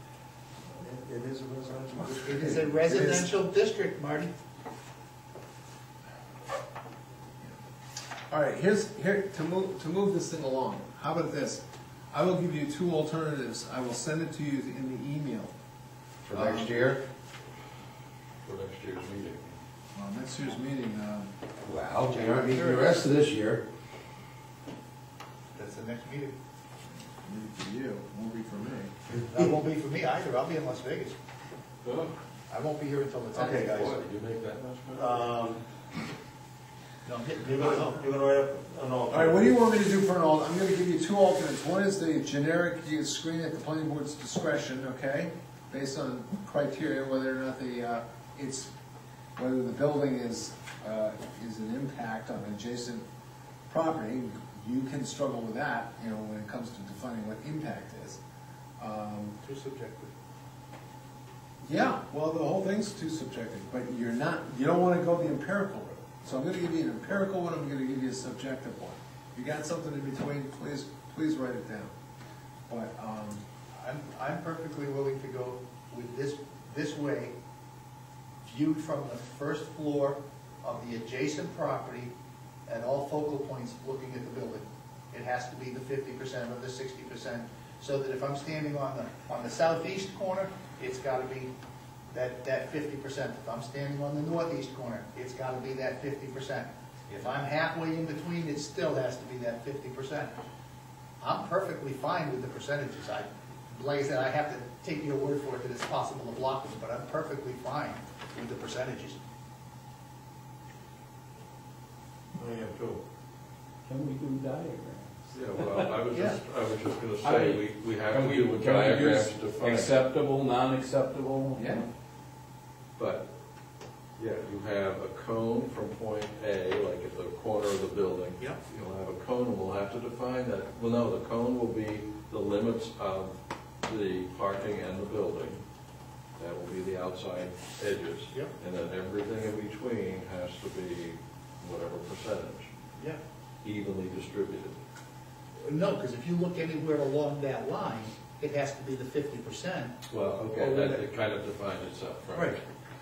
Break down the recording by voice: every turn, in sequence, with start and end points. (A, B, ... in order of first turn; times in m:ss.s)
0:00.8-0:02.8 A
0:02.2-0:04.3 B
0:02.9-0:03.3 C
0:08.3-0:15.5 C
0:16.3-0:17.0 D
0:16.3-0:16.8 C
0:18.4-0:19.6 E
0:19.9-0:21.3 C
0:21.6-0:23.6 D
0:22.1-0:23.0 B
0:25.6-0:26.4 B
0:27.1-0:28.9 C
0:29.3-0:31.2 B
0:31.8-0:32.2 E
0:32.5-0:33.9 B
0:33.4-0:34.0 A
0:33.4-0:35.4 E
0:34.9-0:35.6 A
0:37.0-0:38.0 B
0:37.4-0:39.6 A
0:39.1-0:48.7 C
0:49.4-0:53.0 C
0:53.7-0:58.2 C
0:58.8-0:59.4 C
0:59.4-1:00.1 B
1:01.6-1:11.9 C
1:12.7-1:13.4 C
1:13.8-1:17.3 B
1:18.4-1:22.1 B
1:22.7-1:31.5 B
1:32.1-1:40.3 B
1:41.2-1:49.2 B
1:52.4-1:53.0 A
1:53.9-1:55.8 F
1:55.3-2:00.0 E
1:57.2-2:01.9 F
2:03.0-2:03.3 E
2:04.2-2:15.6 E
2:16.4-2:22.7 E
2:23.6-2:24.8 E
2:25.6-2:30.0 B
2:30.1-2:32.6 E
2:30.6-2:31.0 B
2:32.3-2:32.6 B